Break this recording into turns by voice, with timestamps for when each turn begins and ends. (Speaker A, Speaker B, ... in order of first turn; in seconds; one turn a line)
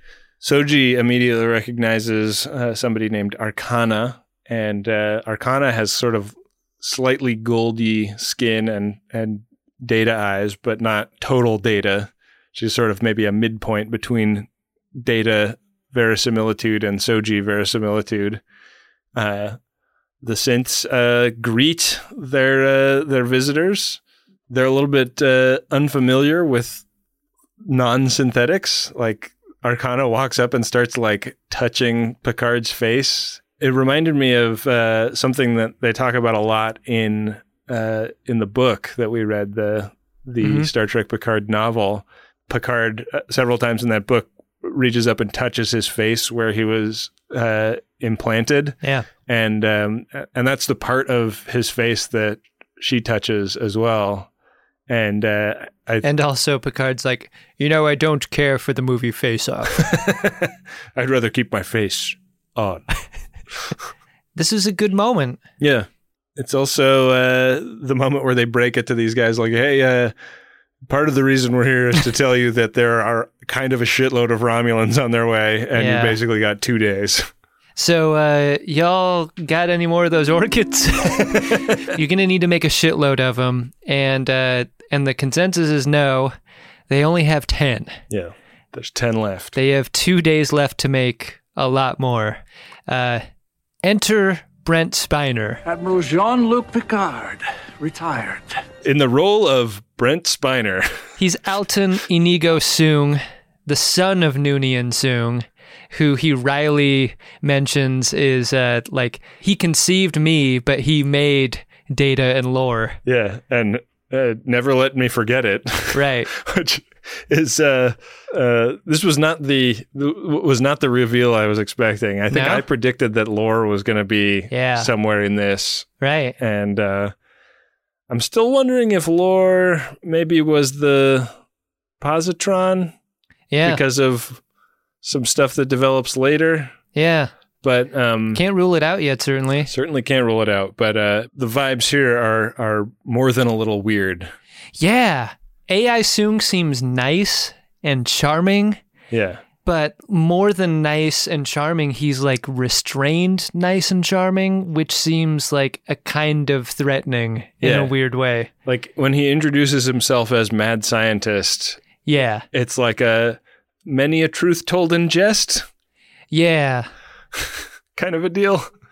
Speaker A: 0.4-18.4
Speaker A: 19.1-19.6
Speaker A: 20.2-26.8
Speaker A: 27.6-54.3
Speaker B: 40.4-40.7
Speaker A: 54.9-56.1
Speaker B: 56.0-59.9
Speaker A: 59.7-62.9
Speaker B: 64.4-65.4
Speaker A: 65.6-70.1
Speaker A: 70.9-77.3
Speaker B: 75.8-76.2
Speaker B: 77.8-86.3
Speaker B: 86.9-88.0
Speaker A: 88.1-89.6
Speaker B: 89.5-93.2
Speaker B: 93.8-95.6
Speaker C: 95.7-98.6
Speaker A: 98.8-101.0
Speaker B: 101.2-113.0
Speaker A: 113.1-127.1
Speaker B: 115.9-116.3
Speaker B: 122.3-122.7
Speaker B: 124.5-124.9
Speaker B: 126.0-126.4
Speaker A: 128.1-131.3
Speaker A: 132.0-132.9
Speaker B: 133.5-133.8
Speaker A: 133.6-134.4
Speaker A: 135.0-136.8
Speaker B: 136.9-137.3
Speaker A: 137.6-138.4
Speaker B: 138.3-139.7
Speaker A: 139.7-144.3
Speaker B: 144.8-148.8
Speaker A: 149.1-149.4
Speaker B: 149.6-158.5
Speaker A: 157.6-157.9
Speaker A: 158.7-161.8
Speaker B: 162.0-162.5
Speaker A: 162.5-165.7
Speaker B: 166.3-166.9
Speaker A: 167.3-168.7